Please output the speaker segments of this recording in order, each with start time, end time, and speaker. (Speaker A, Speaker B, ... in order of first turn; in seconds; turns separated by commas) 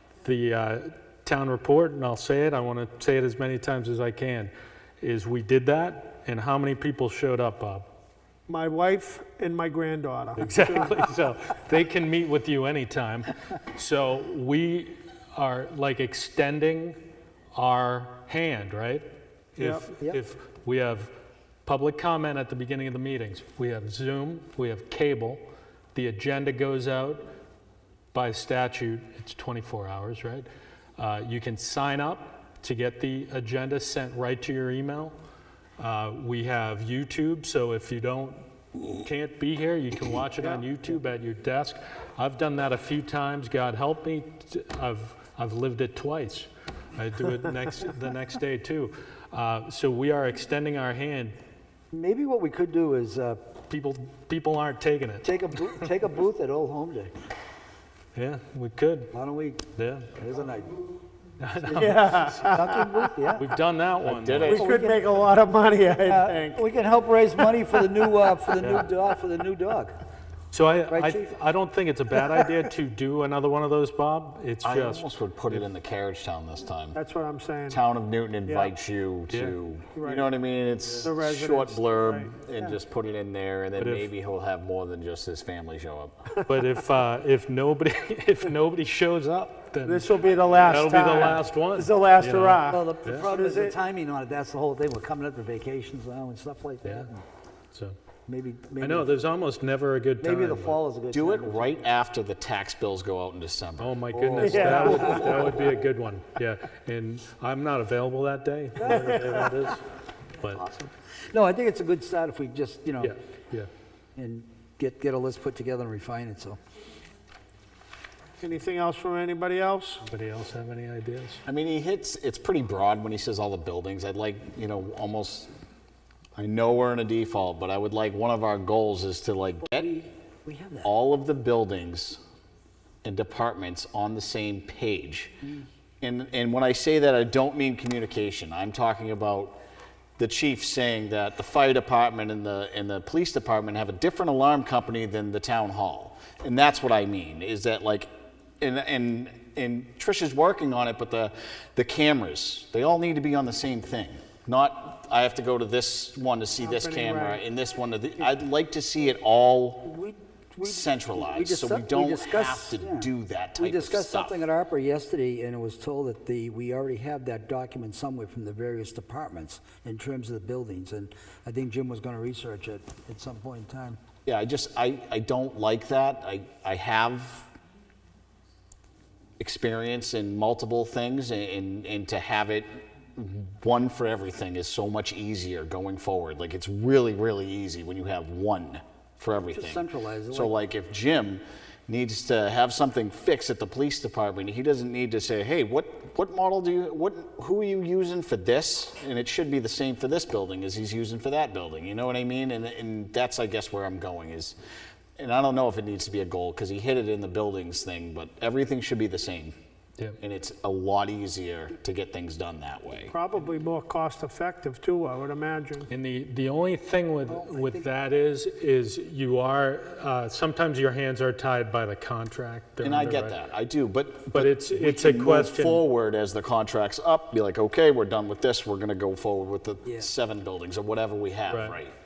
Speaker A: 0.2-7.9, Speaker B: 8.5-11.0, Speaker A: 10.3-17.0, Speaker A: 17.5-21.1, Speaker B: 19.6-19.9, Speaker A: 21.7-25.4, Speaker A: 25.9-27.2, Speaker A: 28.1-30.5, Speaker A: 31.0-35.1, Speaker A: 35.8-38.4, Speaker A: 39.0-51.3, Speaker C: 51.9-53.4, Speaker A: 53.7-55.9, Speaker C: 55.2-57.1, Speaker A: 58.1-59.1, Speaker C: 59.1-59.6, Speaker A: 59.8-60.1, Speaker C: 60.1-60.9, Speaker A: 61.4-62.6, Speaker C: 61.6-63.5, Speaker B: 61.8-63.1, Speaker A: 63.3-64.6, Speaker D: 64.0-64.7, Speaker C: 64.5-65.1, Speaker B: 64.6-66.6, Speaker C: 66.0-69.9, Speaker A: 68.6-68.9, Speaker A: 70.5-75.7, Speaker C: 70.9-71.3, Speaker D: 74.6-77.0, Speaker B: 76.9-77.8, Speaker D: 77.7-86.2, Speaker B: 78.4-78.8, Speaker A: 79.3-79.6, Speaker B: 79.9-80.3, Speaker A: 80.8-81.1, Speaker B: 81.0-82.7, Speaker A: 83.8-84.1, Speaker A: 86.4-93.3, Speaker B: 89.8-93.8, Speaker C: 92.7-97.1, Speaker A: 96.8-97.1, Speaker C: 98.3-99.1, Speaker A: 98.8-100.8, Speaker C: 100.2-101.8, Speaker D: 101.1-104.0, Speaker A: 103.8-109.8, Speaker C: 104.1-105.7, Speaker B: 104.4-105.5, Speaker C: 108.8-109.6, Speaker A: 110.4-110.7, Speaker C: 110.5-113.1, Speaker A: 113.0-113.7, Speaker C: 114.2-116.6, Speaker B: 118.4-120.0, Speaker A: 120.0-121.4, Speaker D: 121.5-125.5, Speaker D: 126.4-129.9, Speaker C: 129.6-130.9, Speaker D: 130.8-132.2, Speaker D: 133.0-135.4, Speaker D: 136.0-139.6, Speaker D: 140.2-148.1, Speaker D: 148.6-160.0, Speaker B: 156.6-157.4, Speaker C: 159.8-174.0, Speaker D: 160.6-164.4, Speaker D: 174.3-177.5, Speaker D: 179.4-204.6, Speaker C: 189.5-190.6, Speaker D: 205.2-209.6, Speaker D: 210.2-213.1, Speaker B: 213.1-215.9, Speaker A: 215.9-223.4, Speaker C: 217.3-217.9, Speaker D: 222.8-231.9, Speaker A: 224.3-225.8, Speaker C: 229.8-230.1, Speaker A: 231.5-231.8